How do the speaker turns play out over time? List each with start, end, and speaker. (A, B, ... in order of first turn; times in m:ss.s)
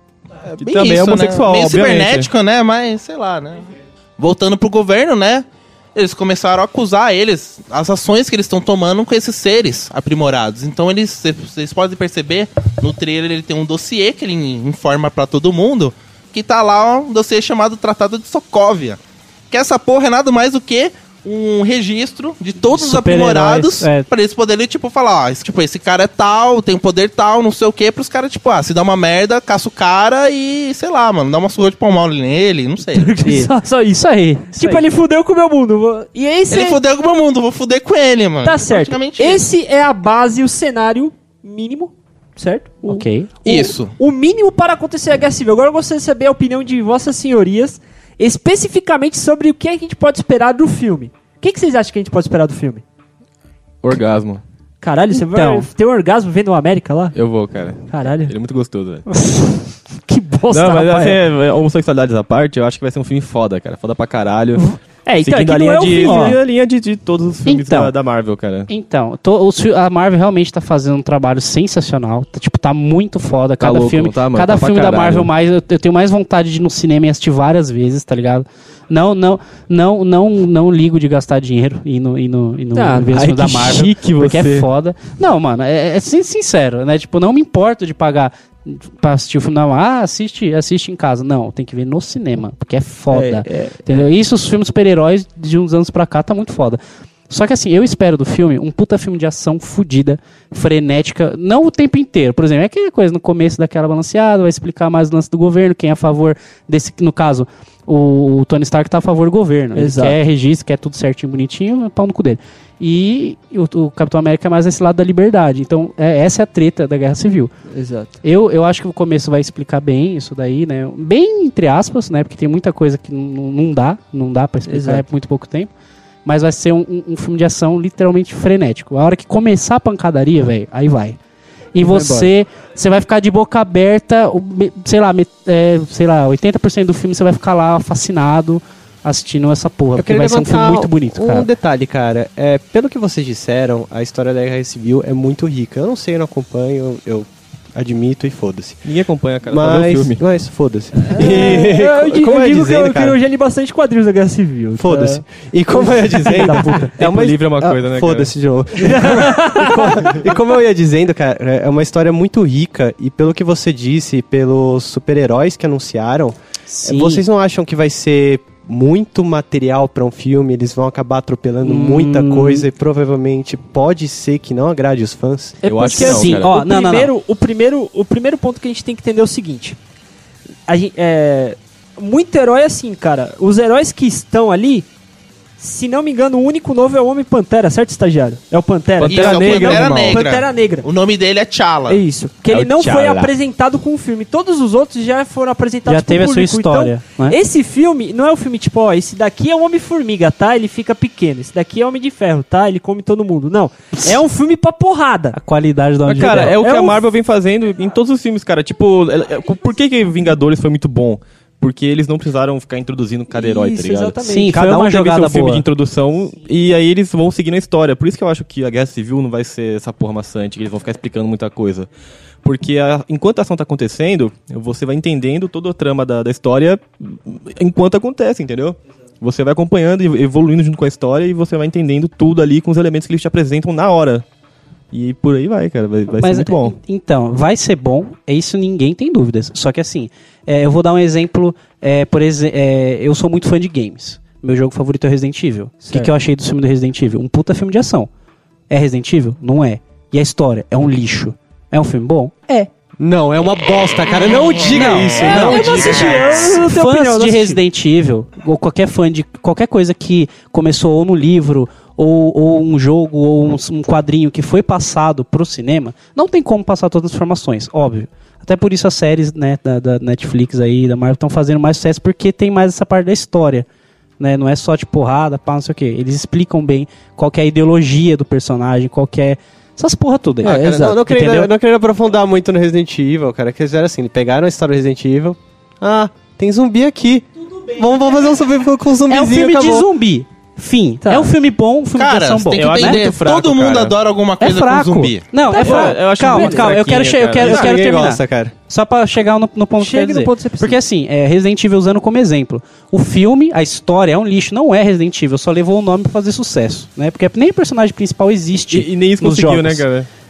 0:00.4-0:19.0 A
0:00.6-0:02.3 B
0:19.5-0:33.2 A
0:22.7-0:24.1 C
0:32.9-0:36.8 D
0:33.2-0:34.8 C
0:36.5-0:39.4 A
0:38.4-0:52.8 D
0:42.8-0:43.3 C
0:43.4-0:44.0 A
0:53.8-0:54.4 B
0:54.8-0:57.2 D
0:55.1-0:55.7 C
0:57.1-0:59.1 B
0:57.9-0:58.3 D
1:00.1-1:01.2 D
1:00.5-1:04.7 B
1:04.6-1:06.4 D
1:05.2-1:08.7 B
1:06.0-1:06.4 C
1:07.5-1:07.9 C
1:08.7-1:57.5 C
1:13.6-1:15.3 B
1:22.8-1:23.2 D
1:23.1-1:24.7 B
1:33.1-1:33.8 D
1:49.8-1:50.2 D
1:57.7-1:58.2 D
1:58.2-2:05.7 C
2:04.7-2:05.0 D
2:06.2-2:11.2 C
2:11.8-2:21.5 C
2:20.0-2:28.8 E
2:28.8-2:30.2 B
2:29.5-2:33.2 E
2:31.0-2:36.9 D
2:34.8-2:55.6 E
2:37.0-2:38.3 B
2:38.8-2:40.2 D
2:46.7-2:47.2 C
2:51.6-2:52.7 C
2:55.6-2:59.8 D
2:55.6-2:56.6 B
2:55.8-2:57.1 C
3:00.7-3:04.9 D
3:05.6-3:10.9 D
3:09.0-3:10.2 B
3:09.1-3:12.0 A
3:11.9-3:25.4 D
3:12.5-3:13.3 B
3:15.9-3:17.4 C
3:25.3-3:26.6 C
3:26.1-3:41.9 B
3:26.4-3:27.0 D
3:33.3-3:34.6 D
3:34.2-3:35.6 C
3:42.4-3:54.2 B
3:54.9-3:56.8 B
3:56.1-4:08.1 C
4:08.7-4:12.7 C
4:13.0-4:16.2 E
4:14.7-4:33.7 C
4:14.9-4:17.6 D
4:34.2-4:41.5 C
4:40.4-4:41.0 D
4:40.4-4:49.9 E
4:49.1-4:53.0 C
4:51.0-4:51.3 D
4:52.0-4:55.3 A
4:52.6-4:54.0 B
4:54.4-5:09.9 C
4:55.5-4:56.8 D
4:55.5-4:57.7 B
4:57.4-4:58.5 E
4:59.8-5:00.8 D
5:08.7-5:10.1 B